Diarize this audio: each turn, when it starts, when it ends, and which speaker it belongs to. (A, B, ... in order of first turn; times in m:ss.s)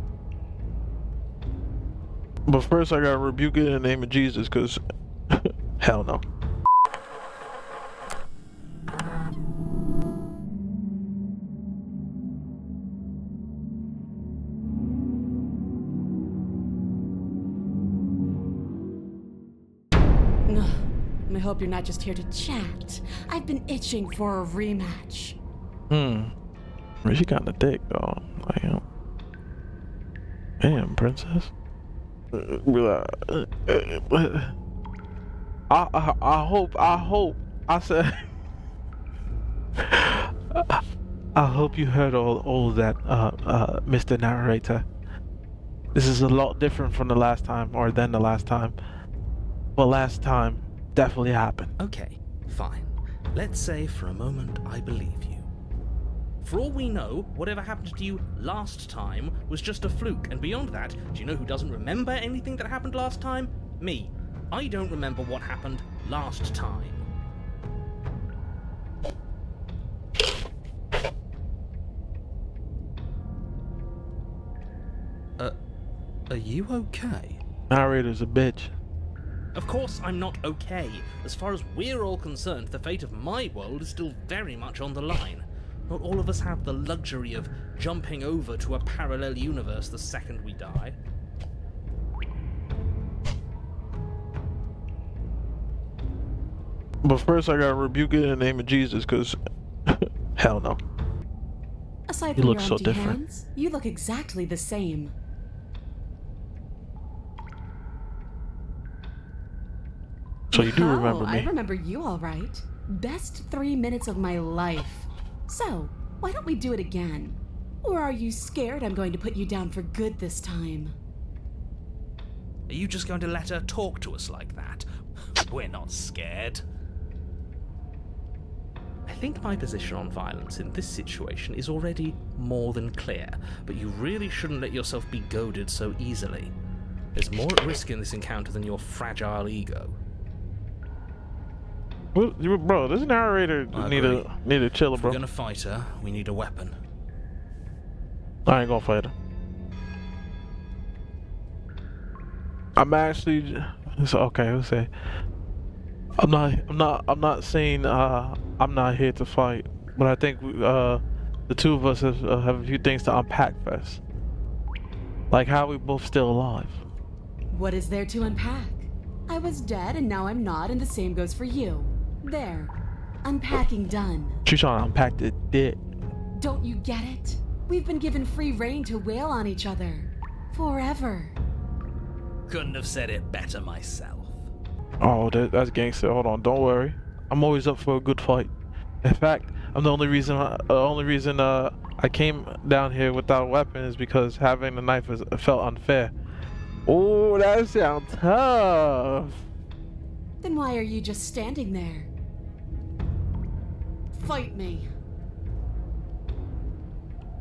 0:02.4-0:06.2 A
0:20.4-0:25.4 B
0:25.9-0:26.3 A
0:27.0-0:28.8 A
0:30.6-0:31.5 A
0:32.3-0:34.5 A
0:35.7-0:38.2 A
0:39.8-0:40.8 A
0:41.3-0:44.8 A
0:45.9-0:48.8 A
0:49.8-0:51.7 A
0:51.8-0:55.5 C
0:56.4-1:07.1 C
1:16.3-1:17.4 C
1:17.7-1:18.7 A
1:19.5-1:31.0 C
1:37.0-1:40.8 A
1:42.1-1:45.1 B
1:42.4-1:43.2 A
1:50.5-1:51.5 A
1:50.5-2:00.9 B
2:02.7-2:04.9 C
2:05.4-2:06.6 C
2:09.1-2:16.5 C
2:17.1-2:20.0 C
2:22.1-2:25.2 A
2:23.7-2:24.3 C
2:24.9-2:26.8 C
2:28.4-2:29.1 A
2:32.8-2:34.9 A
2:36.2-2:44.0 A
2:45.3-2:46.8 A
2:47.5-2:52.7 B
2:53.2-2:54.4 B
2:54.4-2:55.8 A
2:56.4-3:01.4 B
3:02.5-3:04.4 C
3:05.0-3:08.5 A
3:09.0-3:16.1 A
3:16.8-3:19.4 A
3:20.4-3:22.1 B
3:24.1-3:24.9 B